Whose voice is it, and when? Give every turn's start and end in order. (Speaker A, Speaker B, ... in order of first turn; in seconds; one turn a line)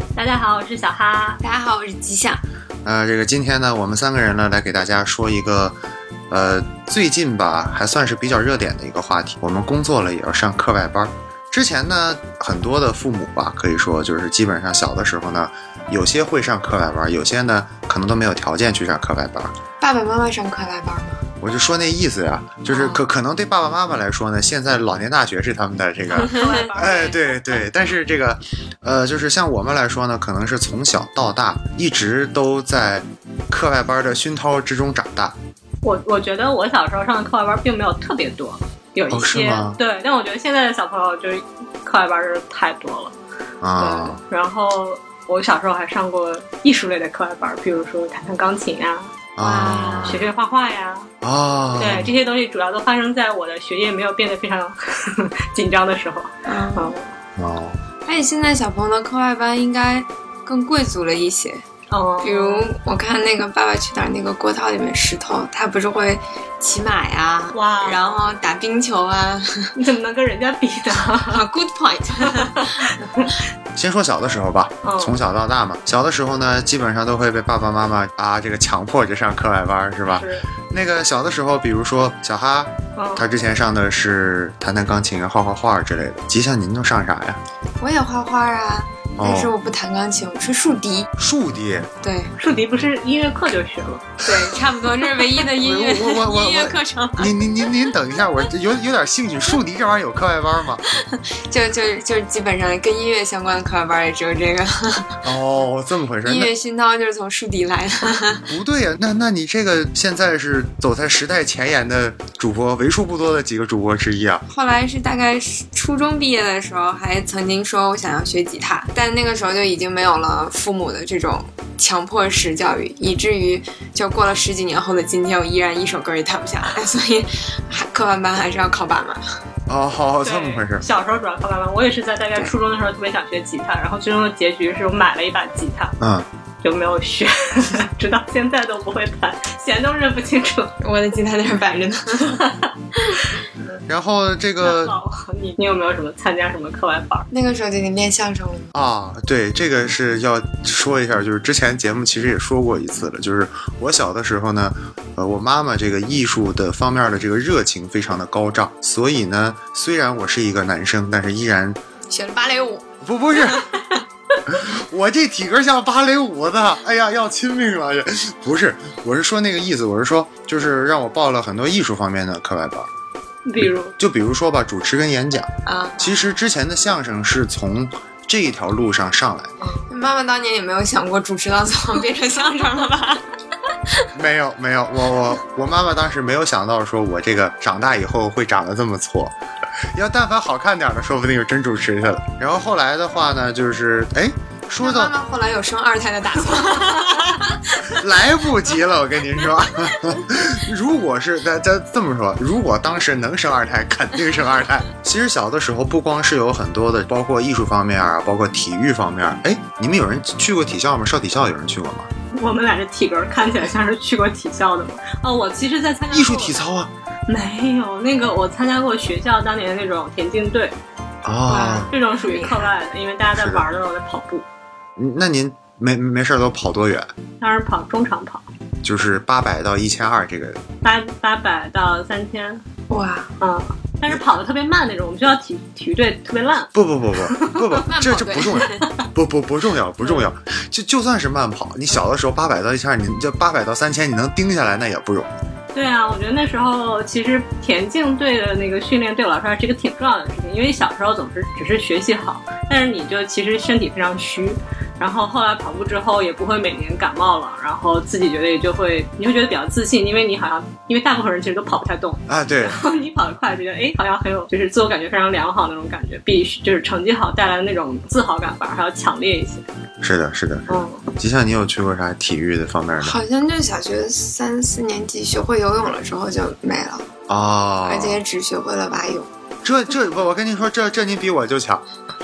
Speaker A: 0.1-1.4
Speaker B: 1.4-2.4
Speaker C: 2.8-5.8
Speaker C: 6.3-19.5
Speaker B: 19.8-21.2
Speaker C: 21.4-35.3
Speaker B: 22.7-23.0
Speaker A: 26.2-27.2
Speaker A: 35.8-43.1
Speaker C: 39.1-39.8
Speaker C: 43.6-44.2
Speaker A: 43.8-49.1
Speaker C: 49.4-50.2
Speaker B: 49.4-50.2
Speaker A: 50.0-51.1
Speaker C: 51.2-52.1
Speaker A: 51.8-57.1
Speaker B: 56.5-56.9
Speaker C: 57.4-57.8
Speaker B: 58.0-61.6
Speaker A: 61.9-62.7
Speaker B: 62.2-69.7
Speaker A: 67.5-68.2
Speaker A: 69.7-71.4
Speaker B: 71.3-73.2
Speaker A: 72.3-73.4
Speaker C: 73.8-87.4
Speaker A: 74.8-75.1
Speaker A: 80.1-80.5
Speaker A: 83.0-83.2
Speaker B: 87.8-91.1
Speaker C: 89.2-89.5
Speaker C: 91.2-91.9
Speaker B: 92.0-92.3
Speaker A: 92.3-94.2
Speaker B: 94.2-97.3
Speaker C: 95.5-100.8
Speaker B: 100.9-105.2
Speaker C: 105.2-106.5
Speaker B: 106.2-108.5
Speaker C: 108.5-114.4
Speaker B: 114.5-129.4
Speaker C: 129.7-130.8
Speaker A: 130.2-135.9
Speaker C: 136.0-136.2
Speaker A: 136.6-140.7
Speaker B: 140.8-142.4
Speaker A: 142.3-142.7
Speaker C: 143.9-144.9
Speaker A: 144.6-147.3
Speaker B: 147.3-148.7
Speaker C: 148.7-161.8
Speaker B: 162.1-162.9
Speaker C: 163.0-163.8
Speaker C: 164.4-172.9
Speaker A: 173.4-173.9
Speaker C: 173.6-179.5
Speaker B: 175.7-176.2
Speaker B: 179.9-183.2
Speaker C: 184.1-189.3
Speaker C: 189.9-195.1
Speaker B: 194.8-197.8
Speaker C: 197.8-212.1
Speaker A: 212.3-216.6
Speaker C: 216.1-216.9
Speaker A: 217.3-220.7
Speaker C: 221.2-221.9
Speaker B: 221.5-222.7
Speaker A: 221.9-224.4
Speaker C: 223.3-223.6
Speaker C: 225.0-227.1
Speaker A: 227.4-228.4
Speaker C: 228.8-230.6
Speaker A: 230.8-232.6
Speaker B: 232.9-233.3
Speaker A: 233.4-236.7
Speaker C: 236.7-245.3
Speaker A: 237.3-237.6
Speaker B: 237.7-238.9
Speaker A: 245.7-269.6
Speaker C: 262.3-262.8
Speaker C: 270.0-273.2
Speaker A: 270.7-271.0
Speaker B: 273.0-277.1
Speaker C: 277.3-278.2
Speaker B: 277.8-279.3
Speaker C: 279.6-281.8